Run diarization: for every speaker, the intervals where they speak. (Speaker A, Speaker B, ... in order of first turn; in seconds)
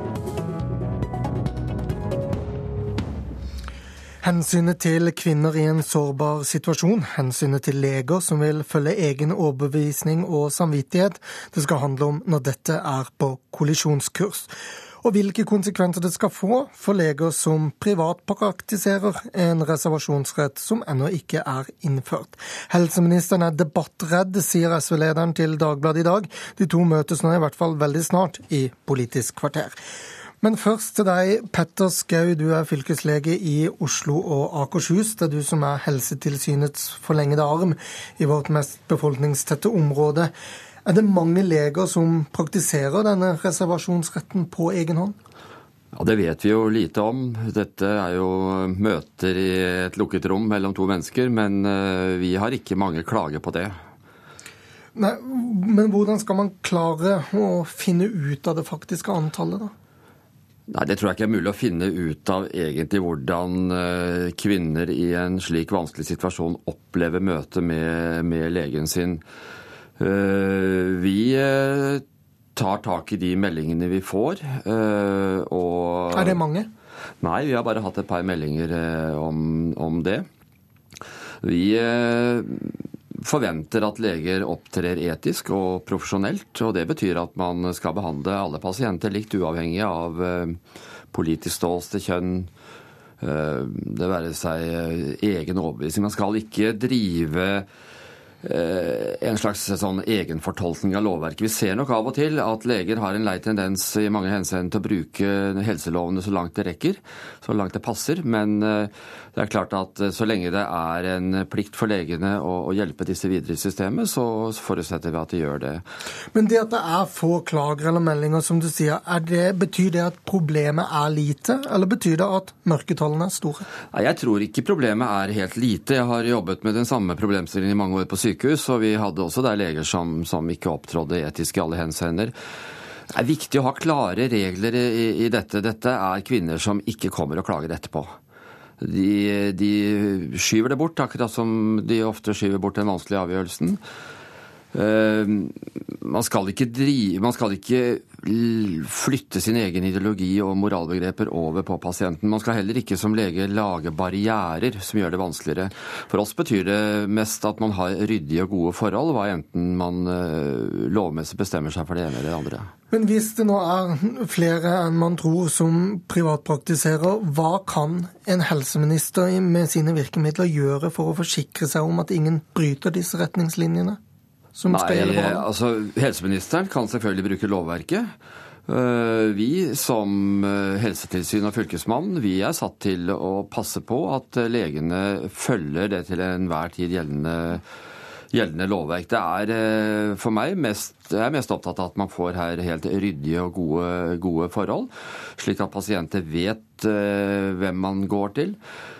Speaker A: 4.2-14.5, 15.0-29.7, 30.4-40.3, 40.9-45.1, 54.9-59.7, 76.1-76.7, 116.3-123.6, 162.9-174.0, 174.6-175.4
Speaker B: 45.9-53.7, 60.7-69.2, 70.0-72.0, 72.5-76.4, 77.2-80.3, 81.4-90.6, 91.1-92.5, 93.2-97.7, 98.4-115.8, 123.9-132.3, 133.1-138.1, 138.8-143.8, 144.7-162.7, 174.7-178.1, 178.7-187.6, 188.3-198.6